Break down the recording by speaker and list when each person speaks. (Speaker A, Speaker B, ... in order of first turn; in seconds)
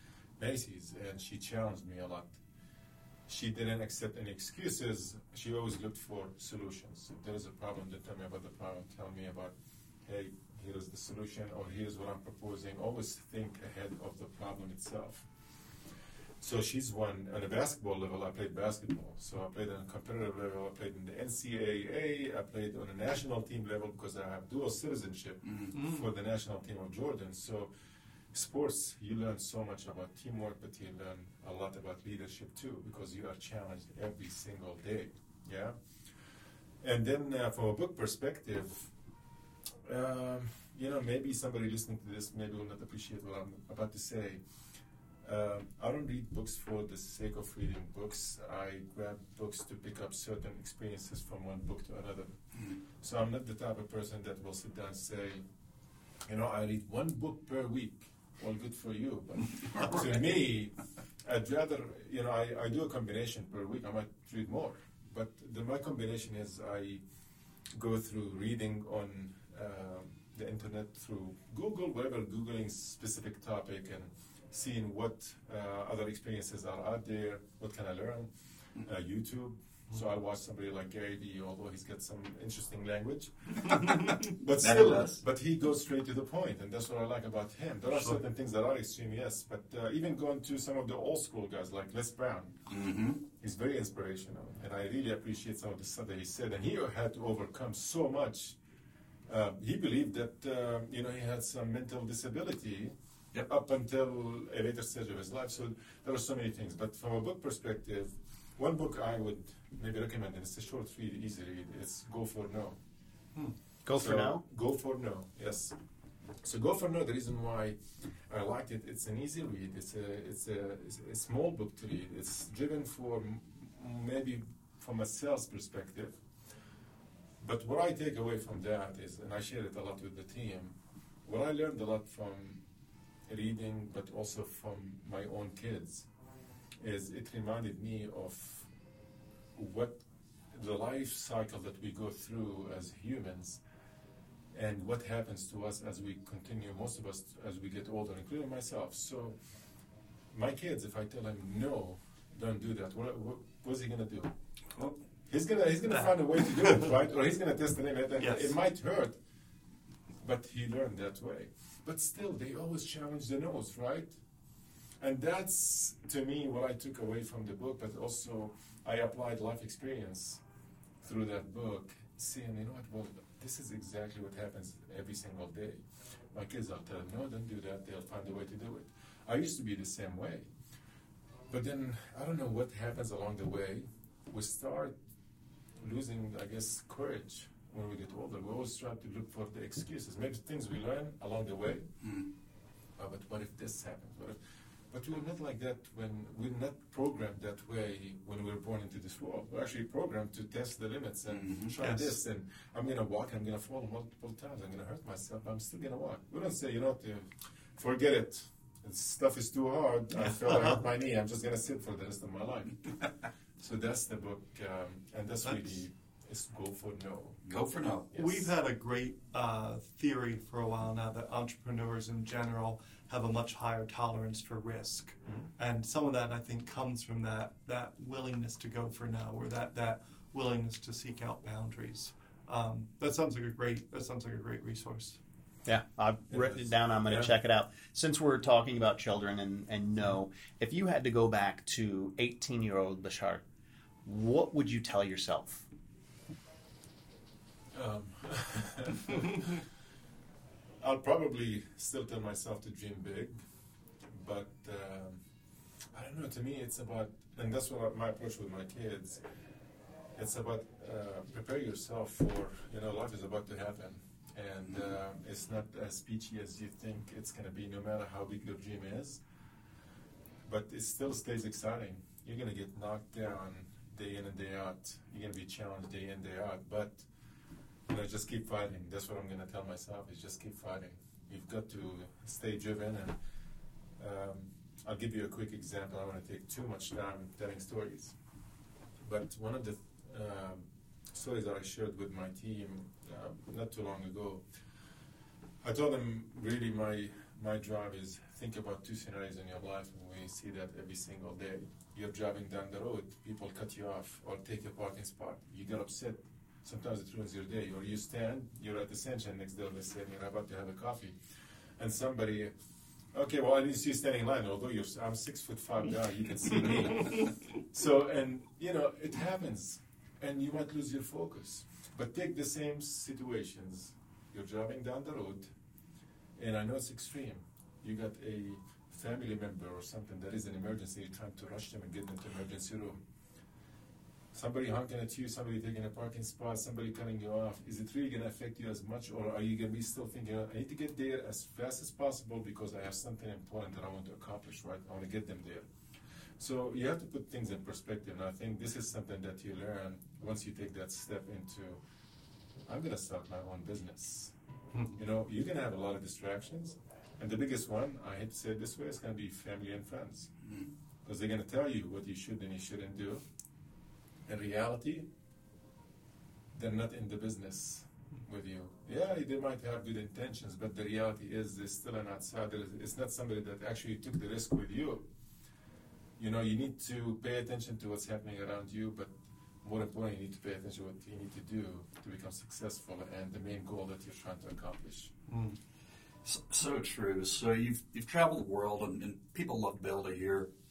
Speaker A: 0.4-2.4, 3.3-9.5, 10.1-15.3, 16.4-27.7, 28.3-35.8, 36.8-38.9, 39.8-44.4, 45.2-52.4, 53.0-55.5, 56.2-67.0, 67.7-92.6, 93.4-98.6, 99.3-112.8, 113.9-115.8, 116.4-126.2, 127.4-132.6, 133.3-136.1, 136.8-138.7, 139.6-143.6, 144.5-149.4, 150.3-154.3, 155.3-159.2, 160.2-164.2, 165.0-170.4, 171.0-180.5, 181.5-185.0, 185.8-191.9, 193.0-194.4, 194.9-212.9, 213.6-217.4, 218.1-218.5, 236.3-237.3, 247.7-249.6, 250.8-253.4, 254.1-255.2, 255.9-259.2, 260.1-269.2, 270.4-277.1, 277.9-283.1, 284.0-288.1, 289.0-294.4, 295.6-311.2, 311.8-312.5, 313.1-325.5, 326.4-333.0, 334.3-345.7, 346.4-351.8, 352.6-354.3, 354.9-360.3, 361.1-363.2, 364.3-365.1, 366.5-375.1, 376.2-385.1
Speaker B: 25.5-25.7, 59.5-60.3, 83.6-85.2, 92.7-93.2, 192.0-192.3, 201.3-201.7, 217.5-218.1, 386.2-390.5
Speaker C: 113.9-114.4, 235.7-243.4, 244.1-245.7
Speaker D: 155.9-156.9, 158.2-158.5, 201.8-202.1, 215.4-215.7, 218.1-235.2, 385.3-385.6